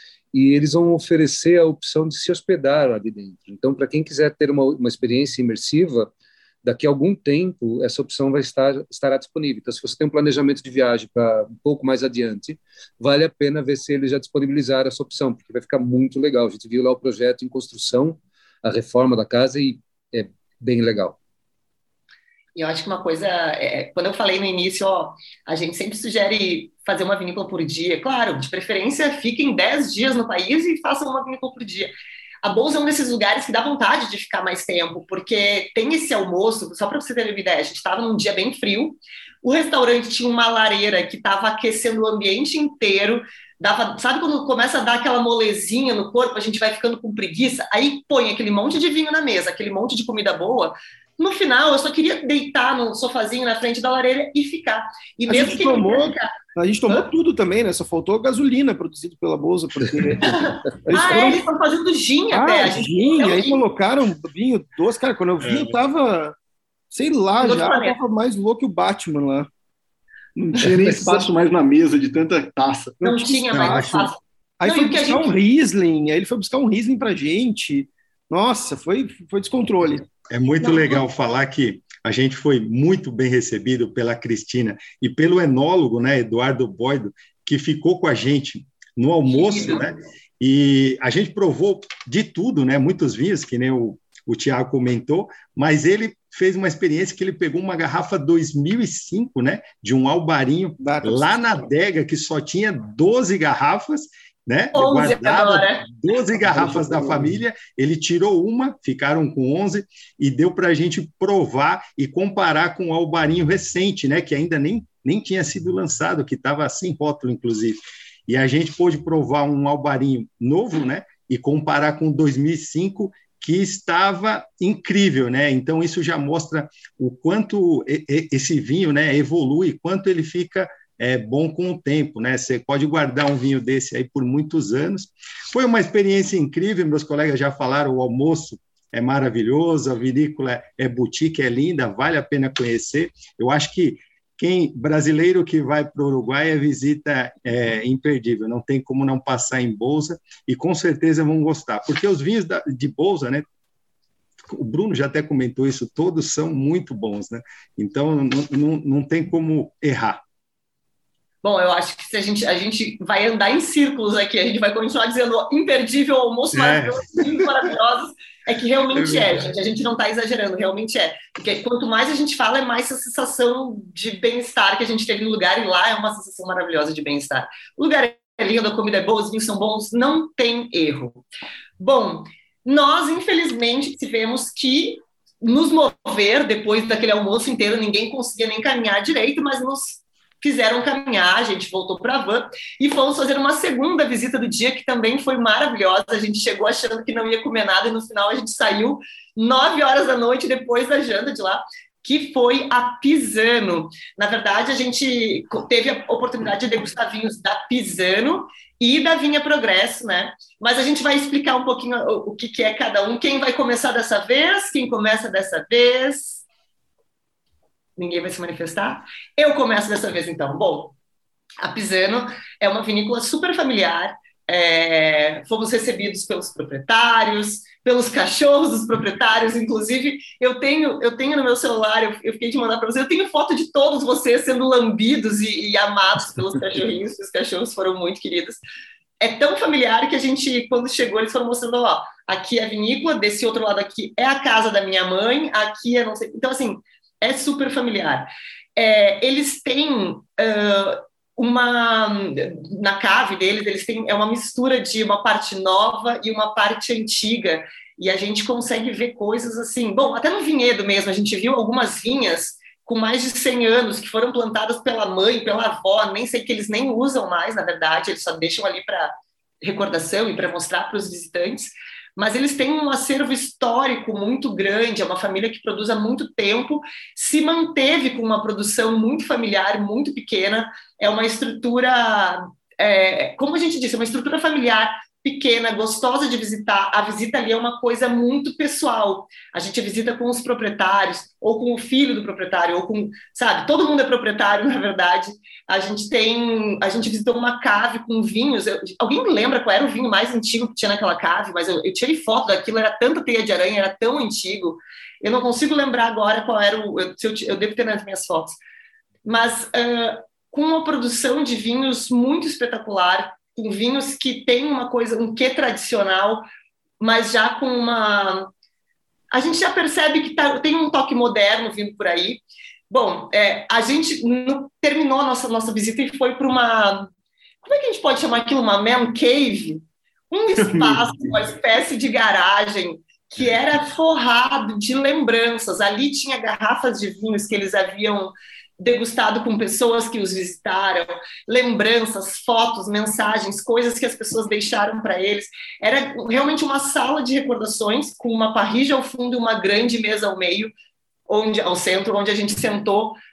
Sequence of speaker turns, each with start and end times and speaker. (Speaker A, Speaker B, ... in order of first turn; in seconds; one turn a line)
Speaker A: 0.3-6.1
Speaker A: 6.6-21.2
Speaker B: 22.6-31.9
Speaker B: 32.4-56.3
Speaker C: 55.3-61.5
Speaker B: 60.2-63.6
Speaker C: 62.3-66.3
Speaker D: 65.4-65.7
Speaker C: 66.9-69.5
Speaker B: 67.4-68.0
Speaker E: 70.3-73.4
Speaker B: 73.0-75.3
Speaker C: 73.2-73.8
Speaker D: 73.5-74.1
Speaker C: 74.6-80.0
Speaker D: 80.3-153.4
Speaker B: 80.6-81.0
Speaker B: 89.2-89.9
Speaker C: 100.8-101.6
Speaker B: 104.7-105.9
Speaker C: 106.5-107.4
Speaker D: 154.5-160.2
Speaker B: 161.4-181.2
Speaker D: 166.5-167.3
Speaker D: 168.9-169.4
Speaker B: 181.8-216.4
Speaker B: 218.0-220.9
Speaker B: 221.6-238.6
Speaker B: 239.2-308.6
Speaker B: 309.2-316.4
Speaker B: 317.0-318.5
Speaker B: 319.3-327.1
Speaker B: 327.6-350.7
Speaker E: 330.6-331.3
Speaker B: 351.3-353.2